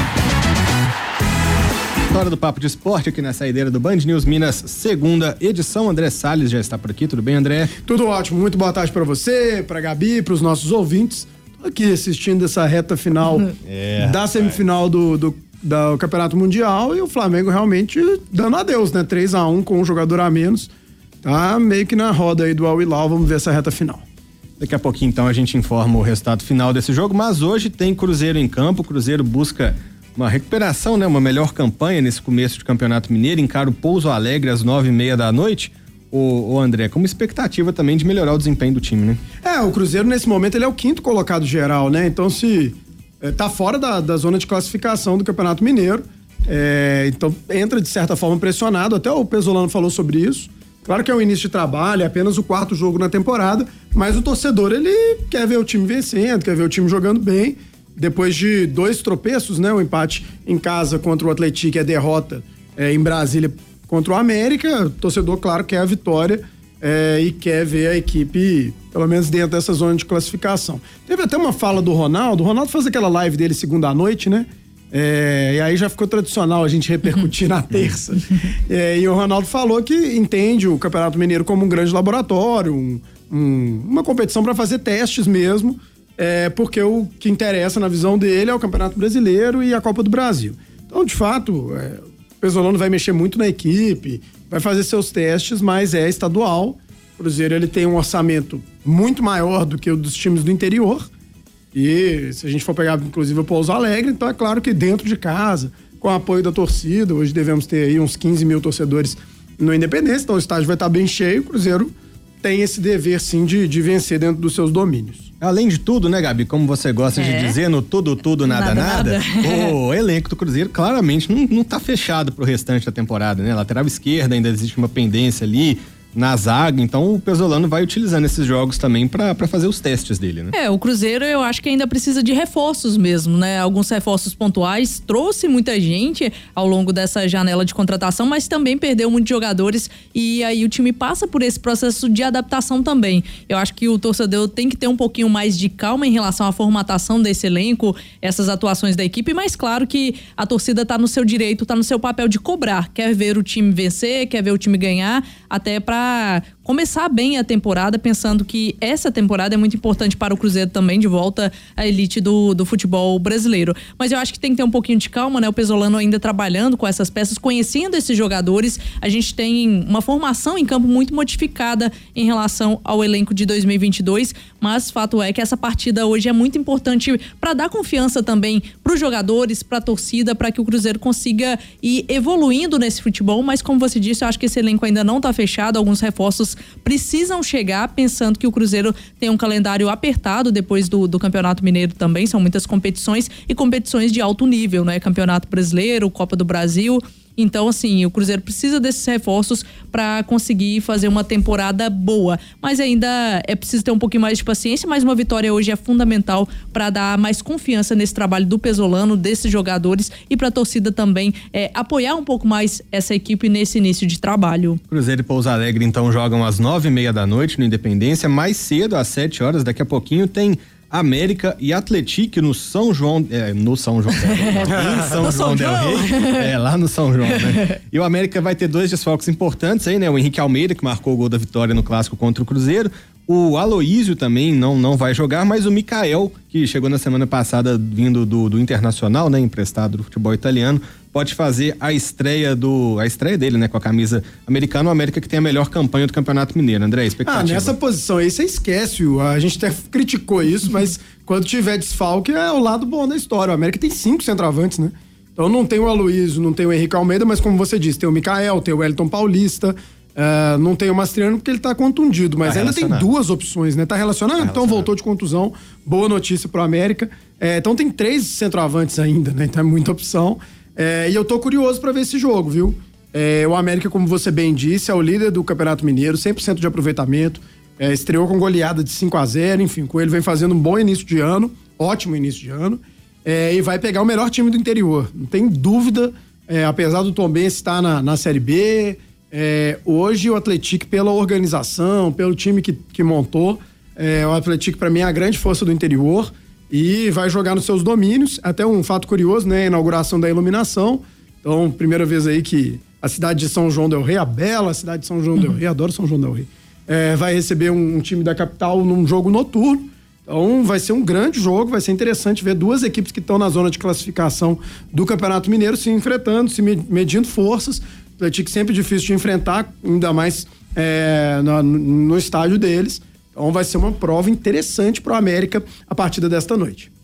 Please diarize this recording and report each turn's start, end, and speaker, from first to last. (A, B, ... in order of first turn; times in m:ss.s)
0:02.1-0:07.7 A
0:07.8-0:20.7 B
0:13.6-0:14.6 A
0:21.2-0:24.0 B
0:24.6-0:39.2 A
0:39.4-1:41.1 B
1:41.7-1:55.3 B
1:55.4-2:10.5 A
1:57.1-1:57.6 C
1:58.4-1:59.7 C
2:10.5-3:34.8 C
3:34.9-4:07.8 A
3:45.1-3:46.5 C
4:07.2-5:26.9 B
4:22.4-4:23.1 A
4:24.4-4:24.9 A